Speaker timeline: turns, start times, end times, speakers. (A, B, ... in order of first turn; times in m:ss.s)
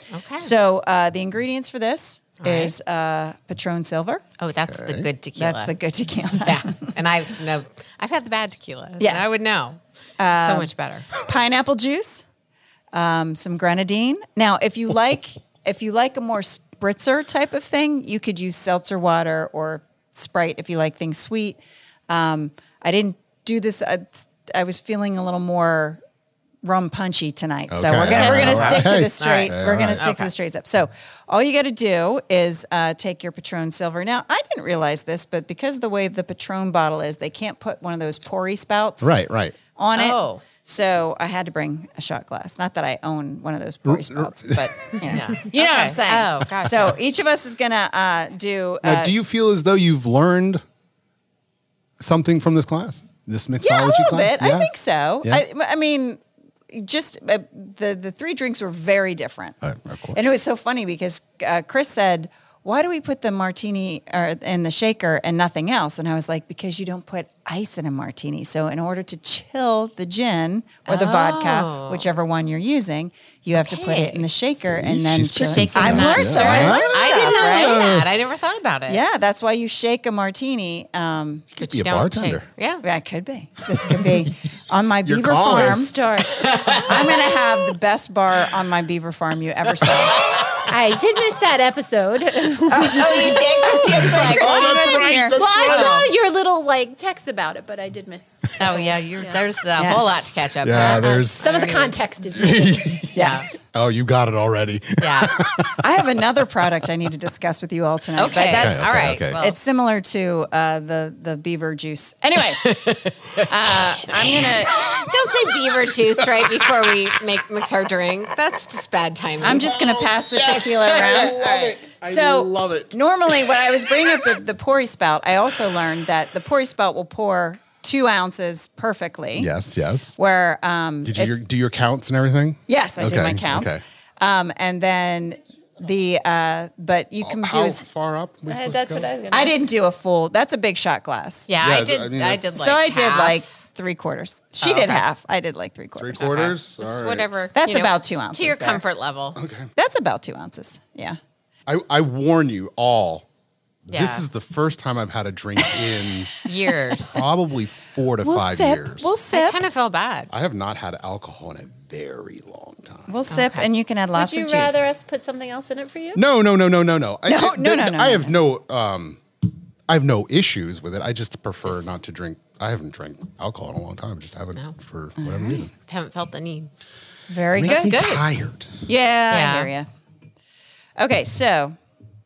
0:00.1-0:00.5 A
0:00.4-0:04.2 B
0:02.4-0:02.8 A
0:04.4-0:05.7 A
0:04.6-0:05.1 C
0:05.4-0:06.9 B
0:06.4-0:11.1 A
0:09.0-0:09.3 B
0:10.2-0:10.7 B
0:11.2-0:12.2 B
0:12.9-0:26.0 B
0:26.6-0:39.2 B
0:27.7-0:30.0 C
0:28.0-0:30.3 A
0:39.0-0:39.6 C
0:39.8-0:49.1 B
0:40.0-0:40.4 A
0:43.9-0:45.1 C
0:45.1-0:46.9 A
0:46.7-0:46.9 C
0:48.8-0:50.6 C
0:52.0-0:54.7 C
0:53.6-0:59.6 B
0:59.6-1:00.2 C
1:00.1-1:17.9 B
1:10.9-1:12.1 A
1:13.5-1:14.3 A
1:14.6-1:18.1 C
1:15.4-1:19.0 A
1:18.9-1:21.5 B
1:21.6-1:22.5 C
1:21.6-1:22.8 A
1:22.8-1:25.9 B
1:23.9-1:24.3 C
1:25.0-1:26.2 C
1:25.6-1:27.0 D
1:26.3-1:26.9 A
1:26.8-1:30.3 B
1:29.9-1:30.6 A
1:30.7-1:34.1 D
1:32.7-1:35.4 B
1:32.8-1:35.1 A
1:33.8-1:36.0 C
1:35.2-1:39.4 D
1:35.6-1:36.1 A
1:38.6-1:42.0 A
1:39.8-1:40.0 B
1:40.6-1:41.5 C
1:40.7-1:43.5 D
1:42.4-1:45.8 C
1:43.1-1:43.6 B
1:45.0-1:45.4 A
1:45.8-1:52.6 B
1:48.2-1:49.6 A
1:48.5-1:49.4 C
1:52.5-1:59.8 A
1:53.4-1:54.7 B
1:54.1-1:57.0 C
1:59.4-2:01.4 B
1:59.4-2:03.0 C
2:00.4-2:01.8 A
2:02.0-2:09.5 B
2:09.4-2:10.2 C
2:10.2-2:11.4 B
2:11.0-2:13.8 C
2:12.7-2:17.8 B
2:17.2-2:19.1 C
2:18.5-2:19.5 D
2:19.3-2:21.5 B
2:21.5-2:23.5 A
2:21.6-2:22.6 C
2:22.5-2:26.4 B
2:24.6-2:25.0 A
2:26.0-2:27.3 C
2:26.2-2:29.4 A
2:27.6-2:28.8 B
2:29.4-2:29.7 C
2:29.8-2:31.2 B
2:31.7-2:33.3 C
2:33.9-2:36.3 C
2:33.9-2:34.3 A
2:36.4-2:37.2 A
2:37.1-2:39.2 C
2:38.2-2:39.6 B
2:39.3-2:40.3 A
2:40.3-2:43.1 C
2:43.1-2:44.9 B
2:43.3-2:43.7 A
2:44.1-2:46.2 D
2:46.2-2:49.2 C
2:47.3-2:48.3 B
2:49.9-2:55.7 C
2:55.2-2:55.7 B
2:55.7-2:56.7 A
2:57.3-2:58.0 B
2:57.5-2:58.8 C
2:57.6-2:58.2 A
2:58.9-2:59.9 B
2:59.3-2:59.7 A
3:01.0-3:01.8 B